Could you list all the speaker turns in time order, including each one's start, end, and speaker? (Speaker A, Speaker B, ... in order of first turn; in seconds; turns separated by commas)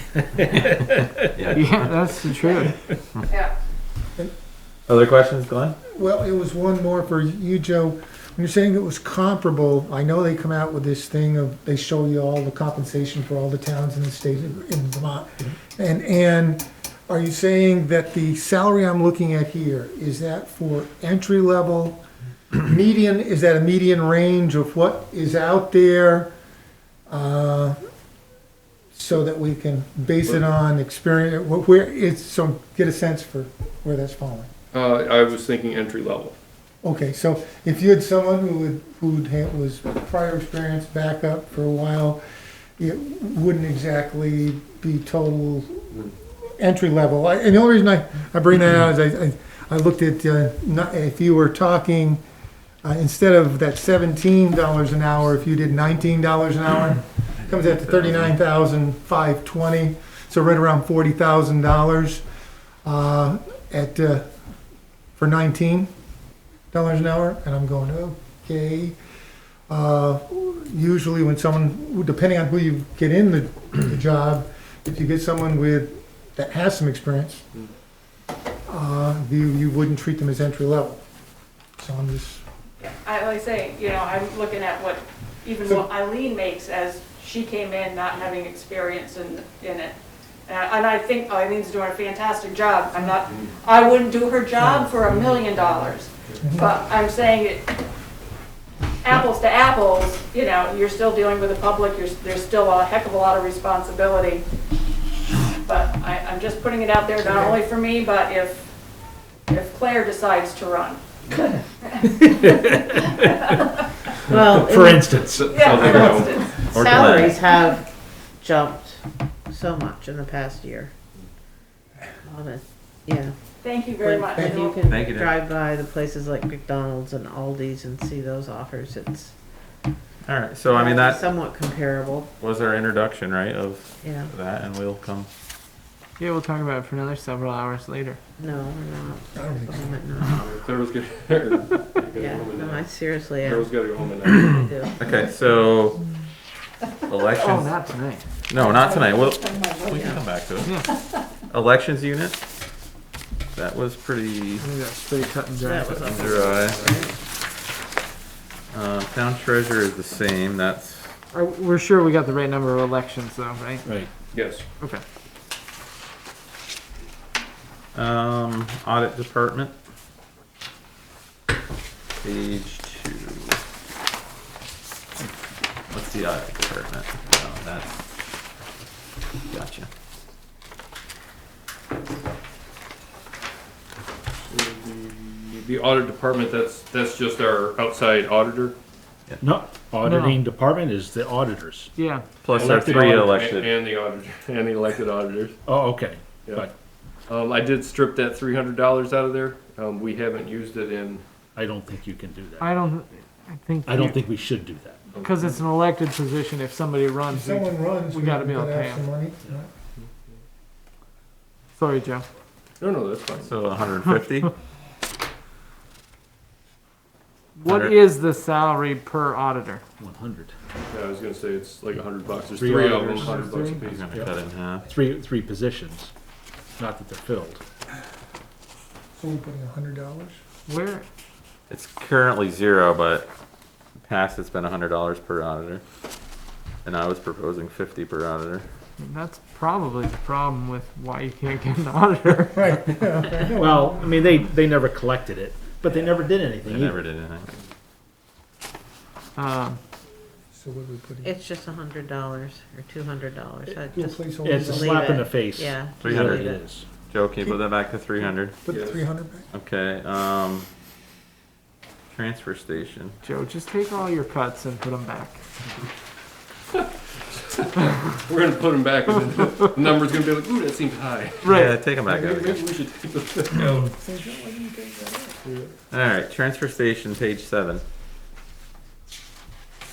Speaker A: 0.2-1.1, Speaker B: 0.4-0.7, Speaker B: 1.3-2.4, Speaker C: 1.5-2.8, Speaker D: 3.3-3.5, Speaker B: 4.9-5.8, Speaker E: 5.9-22.0, Speaker E: 22.6-26.3, Speaker E: 27.1-27.8, Speaker E: 28.9-34.5, Speaker F: 34.7-36.4, Speaker E: 36.8-42.2, Speaker E: 42.8-52.2, Speaker E: 52.8-62.2, Speaker B: 57.5-58.4, Speaker E: 62.8-64.3, Speaker E: 65.2-65.9, Speaker E: 66.7-69.0, Speaker E: 69.7-77.4, Speaker E: 78.7-81.0, Speaker E: 81.8-82.4, Speaker D: 82.8-97.7, Speaker E: 96.4-96.7, Speaker D: 99.0-104.4, Speaker D: 105.5-108.7, Speaker G: 107.2-107.6, Speaker D: 109.5-111.0, Speaker D: 111.8-113.7, Speaker A: 112.2-113.5, Speaker G: 114.2-115.1, Speaker A: 114.5-115.9, Speaker F: 115.3-116.3, Speaker D: 115.5-116.6, Speaker G: 116.7-120.9, Speaker A: 116.7-117.3, Speaker B: 116.8-117.3, Speaker G: 122.2-123.3, Speaker D: 123.6-125.0, Speaker G: 123.9-129.3, Speaker B: 124.9-125.4, Speaker B: 130.2-131.2, Speaker G: 130.7-132.3, Speaker B: 132.4-135.3, Speaker G: 134.0-134.3, Speaker C: 136.2-138.2, Speaker G: 138.4-140.6, Speaker E: 139.3-140.0, Speaker F: 140.4-142.8, Speaker G: 142.1-143.7, Speaker F: 143.4-144.7, Speaker G: 144.4-144.9, Speaker B: 145.0-146.0, Speaker B: 147.1-147.8, Speaker C: 147.4-148.2, Speaker B: 148.5-150.8, Speaker G: 149.9-150.2, Speaker C: 150.6-150.9, Speaker B: 151.5-152.4, Speaker B: 153.5-154.7, Speaker C: 154.6-156.1, Speaker G: 155.6-157.2, Speaker B: 155.9-156.9, Speaker B: 158.7-161.2, Speaker C: 161.3-164.0, Speaker A: 163.8-164.1, Speaker F: 164.3-164.6, Speaker B: 167.9-169.7, Speaker B: 172.2-173.6, Speaker B: 175.9-178.0, Speaker B: 179.5-179.9, Speaker F: 184.5-188.8, Speaker A: 189.4-191.9, Speaker C: 190.0-190.4, Speaker C: 191.9-192.4, Speaker B: 192.4-193.8, Speaker A: 192.5-193.5, Speaker F: 192.5-195.6, Speaker A: 195.6-196.7, Speaker F: 197.3-201.2, Speaker A: 201.6-202.7, Speaker C: 202.6-204.2, Speaker A: 203.8-205.1, Speaker F: 205.1-205.6, Speaker C: 205.2-209.1, Speaker E: 207.3-209.7, Speaker C: 211.8-212.2, Speaker F: 212.8-213.5, Speaker B: 213.4-214.5, Speaker C: 217.6-219.8, Speaker B: 217.7-218.0, Speaker A: 220.0-220.5, Speaker F: 220.9-224.2, Speaker A: 222.6-223.4, Speaker C: 223.1-223.8, Speaker B: 223.8-224.9, Speaker A: 224.0-224.3, Speaker A: 224.8-226.1, Speaker A: 226.8-227.6, Speaker E: 229.2-230.4, Speaker C: 230.7-231.0, Speaker B: 231.7-233.3, Speaker B: 234.0-235.8, Speaker B: 236.8-238.6, Speaker C: 239.0-242.8, Speaker E: 242.5-243.7, Speaker A: 243.5-247.1, Speaker B: 246.6-247.5, Speaker C: 249.3-249.8, Speaker E: 250.5-251.3, Speaker G: 251.2-256.6, Speaker E: 253.9-255.0, Speaker A: 254.4-256.9, Speaker B: 256.0-256.5, Speaker B: 257.1-258.6, Speaker E: 258.6-259.5, Speaker F: 258.7-259.0, Speaker B: 259.5-260.7, Speaker B: 262.1-263.1, Speaker C: 263.2-265.4, Speaker F: 266.7-267.7, Speaker F: 268.2-273.9, Speaker C: 271.4-271.8, Speaker B: 271.5-272.6, Speaker E: 273.9-275.4, Speaker F: 275.4-275.7, Speaker B: 275.9-277.8